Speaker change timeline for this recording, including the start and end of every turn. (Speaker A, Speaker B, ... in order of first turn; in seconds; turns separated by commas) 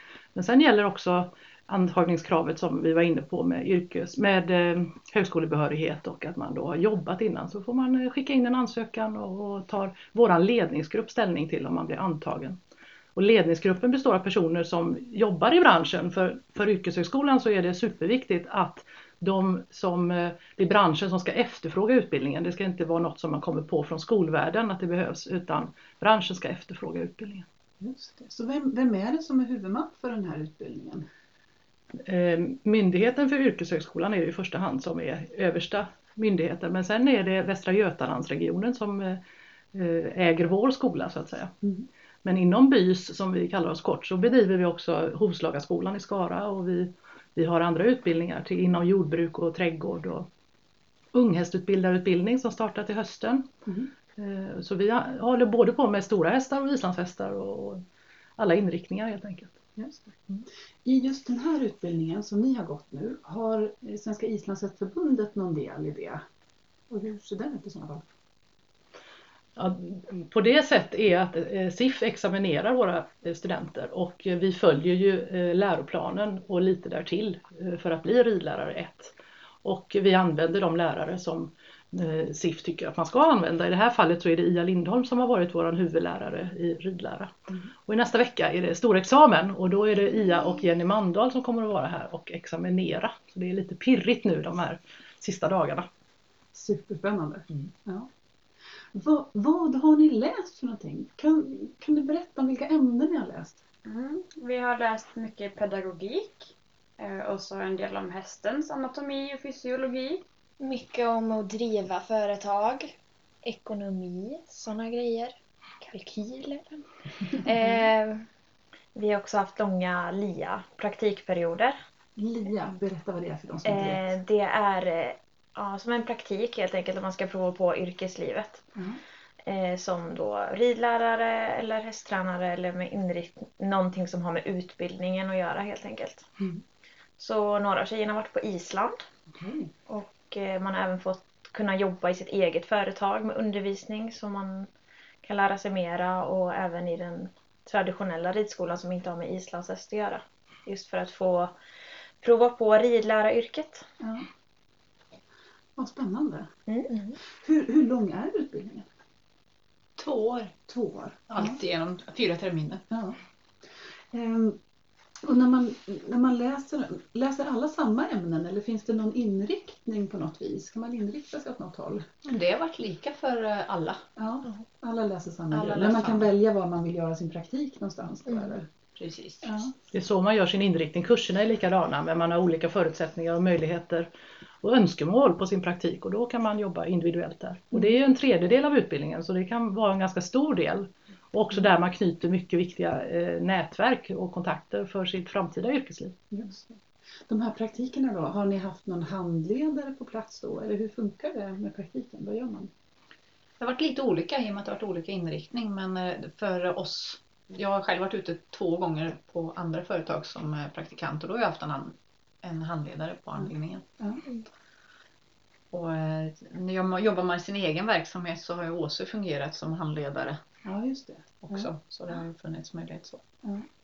Speaker A: 0.3-12.6, Speaker A: 13.1-27.4, Speaker B: 27.8-31.1, Speaker A: 32.0-39.2, Speaker A: 39.7-41.5, Speaker A: 42.2-50.3, Speaker A: 51.1-53.5, Speaker A: 54.2-57.8, Speaker A: 58.4-59.6, Speaker B: 59.8-60.2, Speaker B: 60.8-66.2, Speaker B: 66.9-68.0, Speaker A: 69.6-87.3, Speaker A: 87.8-95.8, Speaker B: 96.5-98.1, Speaker B: 98.9-103.6, Speaker C: 103.8-110.2, Speaker D: 110.6-115.3, Speaker E: 115.8-116.6, Speaker D: 117.3-118.2, Speaker E: 118.9-121.7, Speaker B: 122.2-124.1, Speaker E: 123.7-128.6, Speaker E: 129.4-136.2, Speaker E: 137.2-139.0, Speaker B: 139.3-139.7, Speaker E: 139.9-144.7, Speaker E: 145.2-151.5, Speaker E: 152.2-153.8, Speaker B: 154.0-154.3, Speaker B: 155.8-156.5, Speaker E: 156.7-157.2, Speaker B: 157.4-158.8, Speaker F: 160.0-160.5, Speaker B: 160.7-161.6, Speaker F: 161.3-162.8, Speaker B: 162.9-163.2, Speaker B: 164.1-164.6, Speaker B: 165.2-172.0, Speaker F: 172.2-174.0, Speaker B: 174.2-178.7, Speaker F: 175.7-176.3, Speaker F: 178.9-179.4, Speaker B: 179.4-179.7, Speaker A: 179.9-184.1, Speaker A: 184.6-196.2, Speaker B: 196.3-202.7, Speaker F: 203.6-213.8, Speaker F: 215.7-220.4, Speaker B: 220.6-221.7, Speaker F: 221.4-223.2